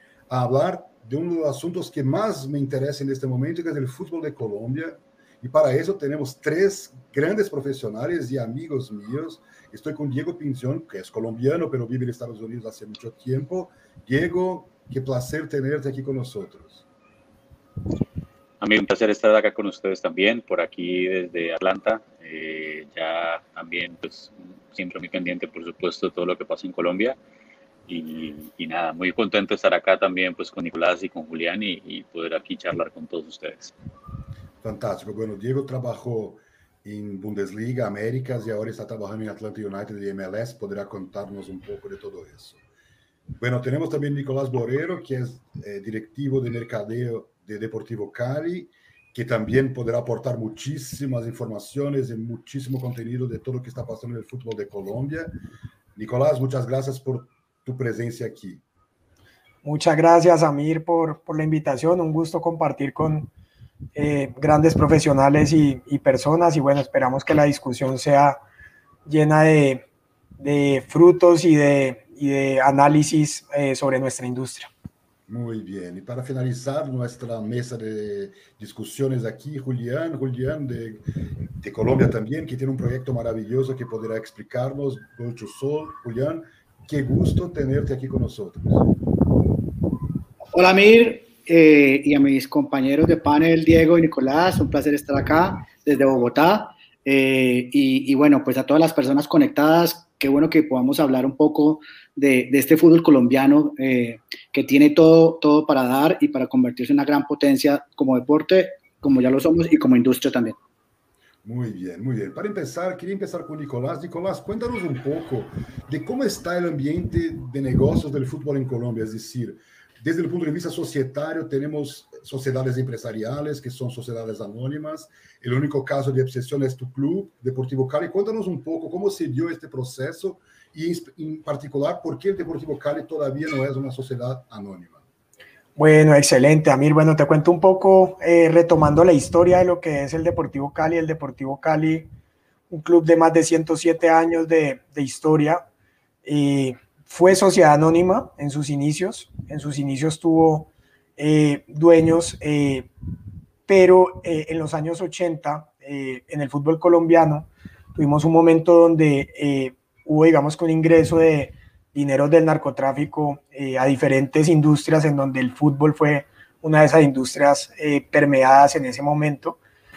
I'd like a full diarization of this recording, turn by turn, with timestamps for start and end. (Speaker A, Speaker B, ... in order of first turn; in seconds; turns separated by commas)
Speaker A: 0.3-16.9, Speaker B: 18.6-27.2, Speaker B: 27.9-33.7, Speaker A: 34.6-42.6, Speaker A: 43.4-55.3, Speaker A: 56.0-58.6, Speaker C: 59.6-63.3, Speaker C: 64.0-68.4, Speaker C: 69.1-69.9, Speaker C: 70.4-74.7, Speaker A: 75.3-81.0, Speaker A: 81.6-88.8, Speaker D: 90.5-110.6, Speaker A: 111.4-135.0, Speaker C: 135.8-142.1, Speaker C: 142.7-145.6, Speaker C: 146.2-152.9, Speaker C: 153.7-169.6